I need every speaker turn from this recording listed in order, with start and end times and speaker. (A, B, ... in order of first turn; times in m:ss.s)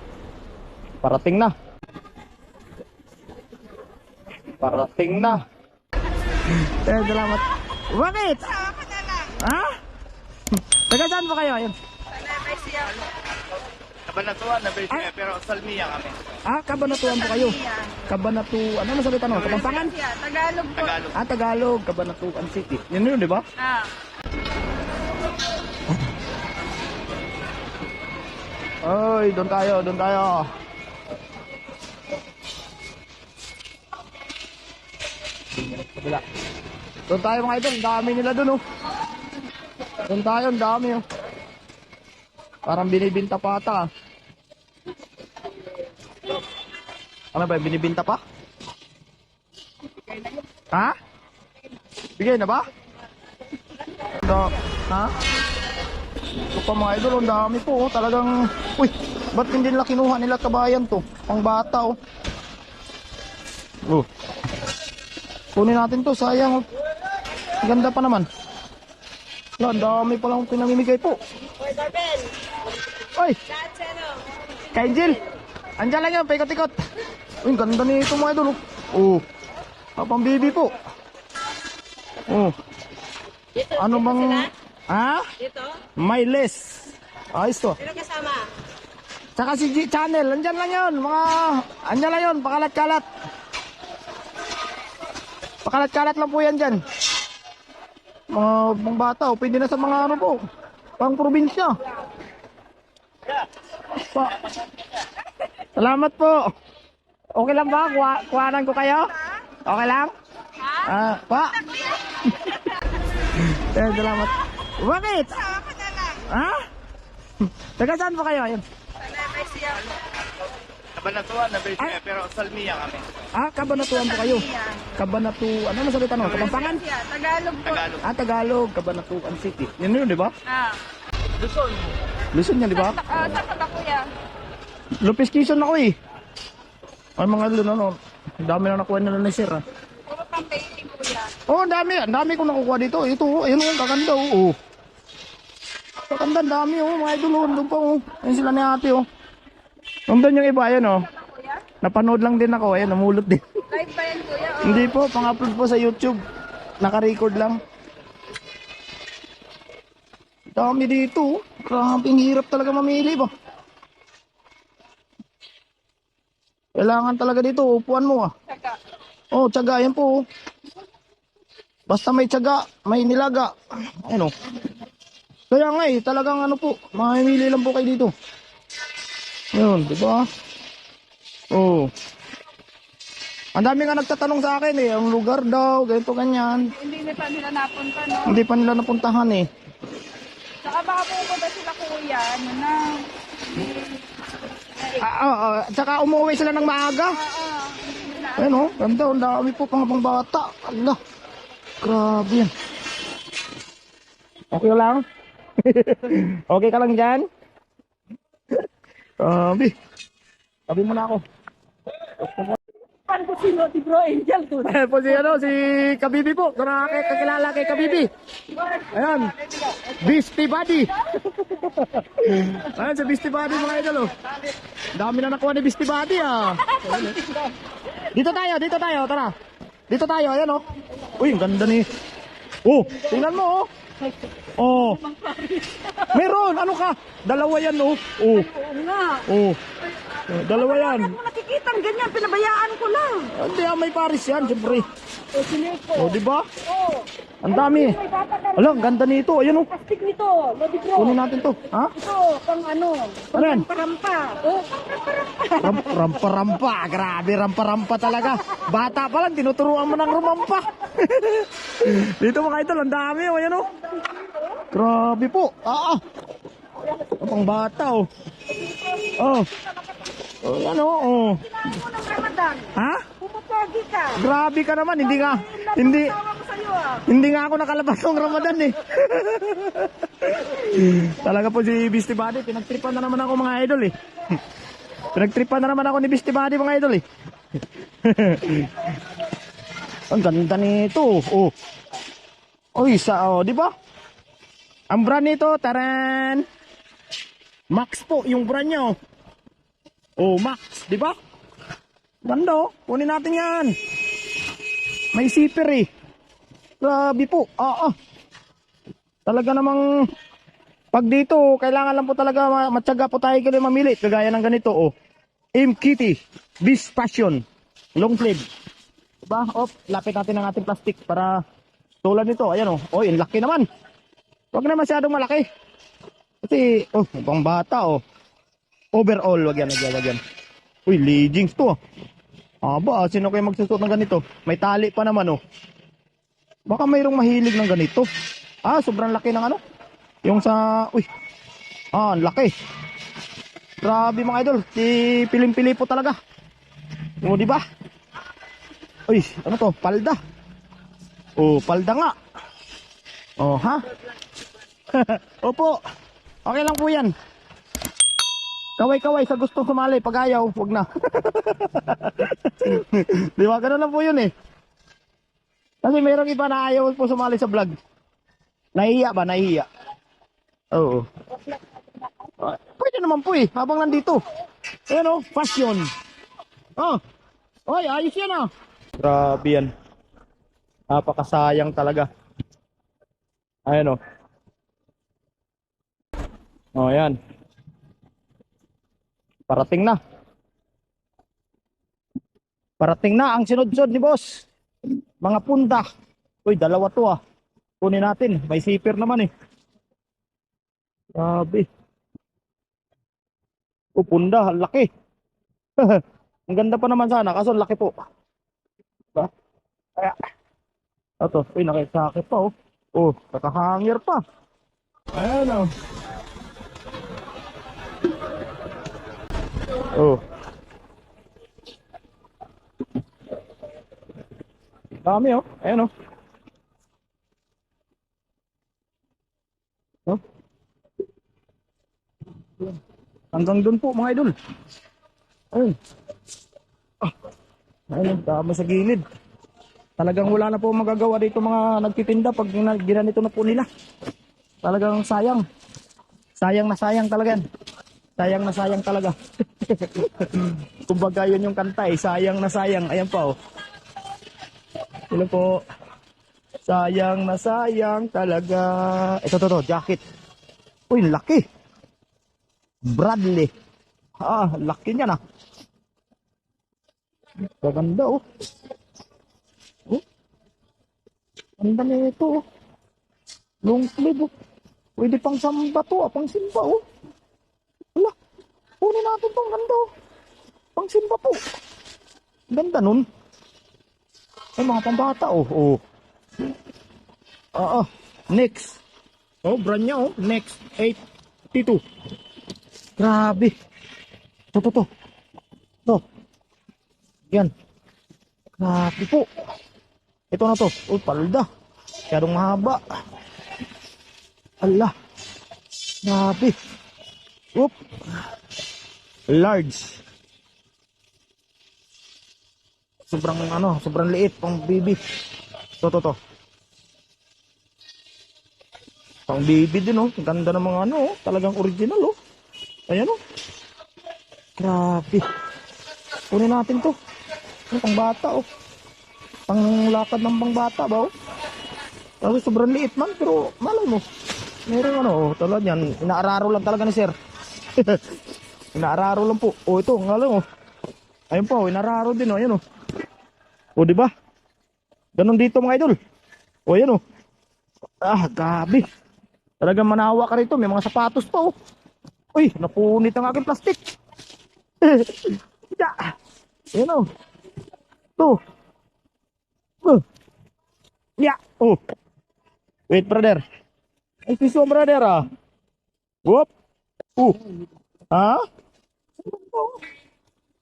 0:01.0-0:01.5 A
0:04.6-0:05.4 A
0:06.6-0:08.6 A
0:09.3-0:09.7 A
0:10.5-0:11.7 A
0:12.1-0:13.0 B
0:14.1-0:16.2 C
0:16.4-0:19.9 A
0:16.8-0:18.0 B
0:19.5-0:21.0 B
0:20.8-0:21.1 C
0:21.1-0:23.4 A
0:23.6-0:23.9 B
0:28.8-0:30.5 A
0:35.8-0:36.2 A
0:37.1-0:38.6 A
0:40.0-0:41.0 A
0:42.6-0:43.9 A
0:47.3-0:48.2 A
0:52.2-0:52.6 A
0:54.1-0:55.2 A
0:56.5-1:01.9 A
1:05.5-1:06.6 A
1:07.6-1:08.3 A
1:09.6-1:11.2 A
1:14.7-1:15.2 A
1:15.8-1:16.8 A
1:17.4-1:19.2 A
1:20.0-1:20.7 A
1:22.2-1:22.5 A
1:23.6-1:25.2 A
1:26.0-1:27.8 A
1:29.4-1:33.0 A
1:35.6-1:36.8 A
1:38.3-1:40.4 A
1:41.0-1:41.7 A
1:43.9-1:44.4 A
1:45.7-1:46.4 A
1:47.3-1:49.1 A
1:49.6-1:50.1 A
1:50.8-1:51.6 A
1:52.2-1:52.6 A
1:53.3-1:55.5 A
1:56.1-1:56.6 A
1:57.8-1:58.6 A
1:59.0-1:59.9 B
2:01.0-2:03.0 C
2:03.3-2:06.8 A
2:03.7-2:04.9 B
2:06.4-2:07.8 B
2:07.6-2:08.0 C
2:08.0-2:10.3 A
2:10.5-2:10.8 B
2:12.3-2:13.0 A
2:12.7-2:14.1 B
2:15.0-2:15.9 A
2:17.2-2:19.6 A
2:20.1-2:21.3 B
2:21.4-2:24.6 A
2:26.1-2:29.0 A
2:30.1-2:31.0 A
2:31.8-2:33.6 A
2:33.7-2:34.9 B
2:34.6-2:36.2 A
2:36.8-2:37.6 A
2:40.5-2:43.3 A
2:46.8-2:48.3 A
2:49.3-2:50.2 A
2:51.9-2:53.5 A
2:54.0-2:54.3 A
2:55.5-2:58.1 A
2:59.5-3:00.2 A
3:01.5-3:01.9 A
3:03.6-3:06.7 A
3:06.7-3:08.3 B
3:08.2-3:09.5 A
3:10.6-3:13.1 B
3:14.9-3:17.2 A
3:17.2-3:18.4 B
3:18.4-3:21.0 A
3:21.8-3:22.5 A
3:24.5-3:25.0 A
3:25.6-3:27.2 A
3:29.2-3:29.7 A
3:30.7-3:31.2 A
3:32.2-3:32.6 A
3:33.1-3:34.6 B
3:34.5-3:38.1 A
3:38.7-3:39.4 A
3:39.9-3:44.1 A
3:44.9-3:47.1 A
3:46.8-3:47.3 B
3:48.1-3:49.3 A
3:49.9-3:51.9 A
3:52.6-3:53.7 A
3:54.6-3:55.0 A
3:55.0-3:56.0 B
3:56.0-3:58.5 A
3:58.5-3:59.2 B
3:59.2-3:59.6 A
4:00.2-4:01.2 A
4:00.5-4:03.3 B
4:03.3-4:04.9 A
4:05.3-4:06.1 B
4:05.9-4:06.4 A
4:06.7-4:07.0 B
4:07.4-4:08.0 A
4:07.8-4:08.6 B
4:08.5-4:09.7 A
4:09.8-4:11.1 B
4:10.9-4:12.0 A
4:12.0-4:14.8 B
4:13.3-4:13.7 A
4:15.6-4:23.7 A
4:24.7-4:26.0 A
4:26.9-4:28.1 A
4:29.1-4:29.5 A
4:30.4-4:31.6 A
4:31.6-4:34.1 B
4:32.7-4:33.0 A
4:34.1-4:36.2 A
4:35.4-4:37.0 B
4:37.0-4:43.9 A
4:45.1-4:47.0 A
4:48.0-4:48.8 A
4:50.1-4:51.5 A
4:52.7-4:53.7 A
4:54.9-4:56.4 A
4:57.7-4:58.9 A
5:00.2-5:01.2 A
5:02.2-5:03.7 A
5:05.1-5:05.9 A
5:06.8-5:07.9 A
5:09.2-5:09.8 A
5:10.9-5:14.9 A
5:15.5-5:17.4 A
5:18.0-5:18.4 A
5:19.3-5:21.3 A
5:22.0-5:23.6 A
5:24.5-5:25.4 A
5:26.4-5:28.0 A
5:29.0-5:30.2 A
5:30.9-5:31.8 A
5:32.6-5:35.4 A
5:36.7-5:38.1 A
5:38.6-5:39.6 A
5:40.2-5:41.1 A
5:41.9-5:42.5 A
5:43.8-5:46.2 A
5:47.2-5:47.6 A
5:49.1-5:50.2 A
5:51.4-5:52.1 A
5:53.4-5:53.8 A
5:54.9-5:55.8 A
5:56.4-5:57.1 A
5:58.8-6:04.3 A
6:05.8-6:07.7 A
6:08.8-6:09.7 A
6:10.7-6:11.1 A
6:12.4-6:14.2 A
6:14.9-6:15.9 A
6:17.7-6:19.7 A
6:20.9-6:22.1 A
6:23.7-6:24.0 A
6:26.8-6:27.2 A
6:29.5-6:30.0 A
6:32.8-6:34.4 A
6:35.2-6:35.8 A
6:36.4-6:37.2 A
6:37.8-6:39.3 A
6:41.2-6:41.7 A
6:44.0-6:44.9 A
6:45.8-6:47.9 A
6:51.2-6:54.2 A
6:55.1-6:55.7 A
6:59.9-7:00.2 A
7:05.0-7:05.9 A
7:13.3-7:14.3 A
7:17.9-7:19.0 A
7:20.0-7:23.7 A
7:24.6-7:25.4 A
7:26.4-7:27.4 A
7:28.2-7:33.3 A
7:35.1-7:35.6 A
7:36.6-7:40.0 A
7:40.9-7:41.4 A
7:42.8-7:43.5 A
7:44.2-7:45.2 A
7:47.6-7:48.2 A
7:51.6-7:52.4 A
7:53.6-7:54.3 A
7:55.0-7:56.8 A
7:58.8-7:59.9 A
8:00.7-8:01.4 A
8:02.5-8:03.0 A
8:04.6-8:05.8 A
8:07.5-8:08.8 A
8:09.4-8:11.0 A
8:11.5-8:11.8 A
8:13.0-8:13.5 A
8:14.5-8:14.9 A
8:18.6-8:19.3 A
8:20.3-8:21.4 A
8:22.1-8:22.8 A
8:24.6-8:24.9 A
8:26.0-8:26.5 A
8:29.3-8:30.0 A
8:33.1-8:35.0 A
8:35.8-8:36.2 A
8:39.3-8:42.2 A
8:42.9-8:43.2 A
8:44.6-8:45.2 A
8:46.3-8:46.9 A
8:47.7-8:48.4 A
8:49.5-8:51.1 A
8:52.2-8:54.0 A
8:54.7-8:57.1 A
8:57.7-8:58.0 A
8:58.7-9:00.4 A
9:01.3-9:02.6 A
9:03.8-9:04.1 A
9:05.2-9:05.9 A
9:06.7-9:07.0 A
9:08.0-9:08.8 A
9:09.6-9:11.5 A
9:12.3-9:13.8 A
9:14.8-9:16.1 A
9:16.7-9:17.0 A
9:21.2-9:21.8 A
9:22.9-9:23.4 A
9:24.3-9:25.2 A
9:27.2-9:27.4 A
9:28.1-9:28.4 A
9:29.2-9:29.8 A